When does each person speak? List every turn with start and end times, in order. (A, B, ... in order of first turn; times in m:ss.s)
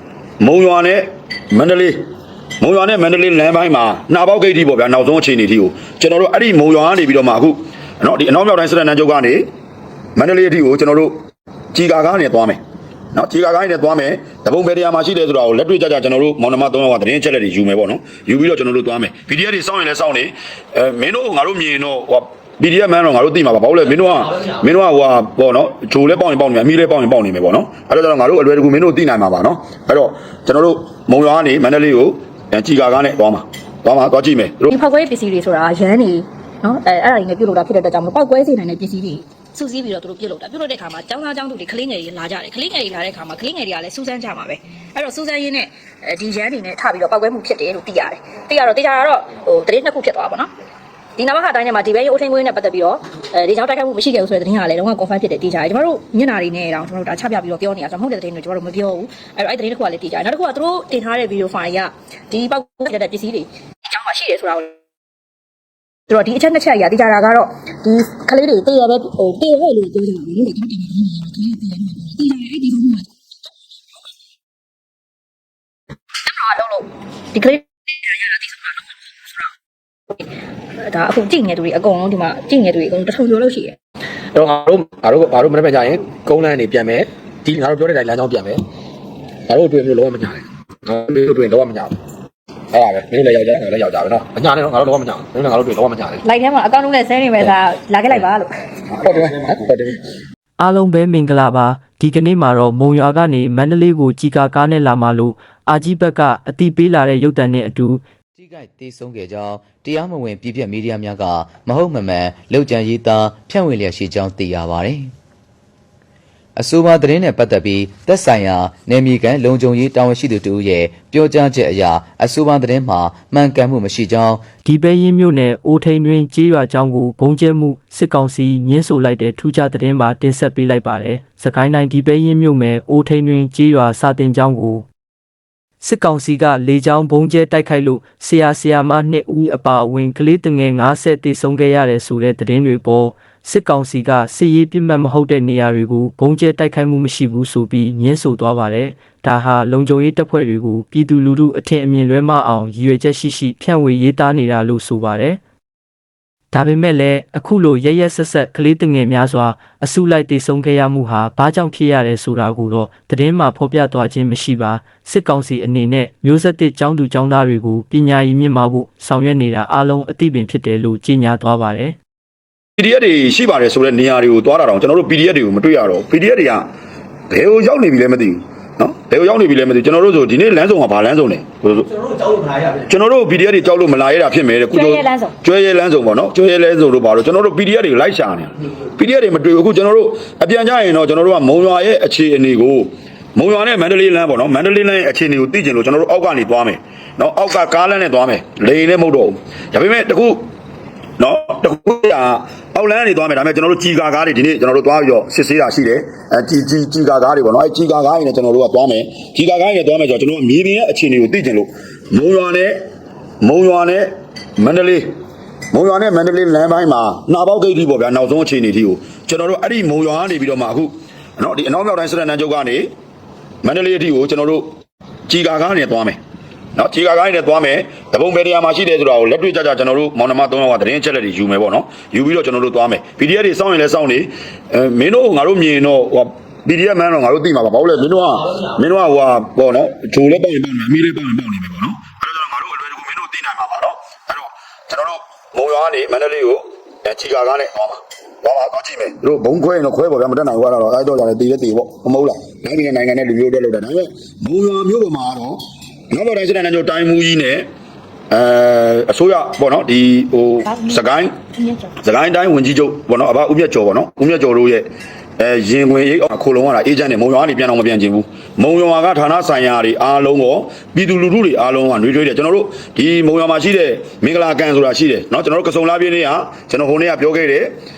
0:00.4-0:02.0 A
0:02.6-0:09.5 A
0:10.2-0:11.2 A
0:11.7-0:12.6 A
0:13.1-0:34.7 A
0:34.7-0:50.5 B
0:51.2-1:04.8 B
1:06.1-1:13.1 B
1:16.2-1:19.5 B
1:20.8-1:23.8 B
1:24.3-1:28.6 C
1:29.5-1:31.9 C
1:32.7-1:36.2 C
1:36.2-1:38.5 B
1:39.0-1:40.0 C
1:40.6-1:48.0 D
1:48.4-1:55.1 E
1:56.6-2:04.5 E
2:04.6-2:14.8 D
2:15.8-2:35.4 D
2:36.5-2:52.0 D
2:52.8-2:56.7 A
2:57.3-3:01.9 A
3:02.6-3:20.4 A
3:04.7-3:05.3 B
3:21.2-3:32.8 A
3:33.4-3:35.1 A
3:35.7-3:42.9 A
3:43.6-3:44.7 A
3:45.3-3:46.2 A
3:46.8-4:15.6 A
4:16.1-4:17.7 A
4:18.3-4:21.4 A
4:20.7-4:21.0 B
4:21.6-4:21.9 B
4:22.0-4:24.9 A
4:25.4-4:37.7 A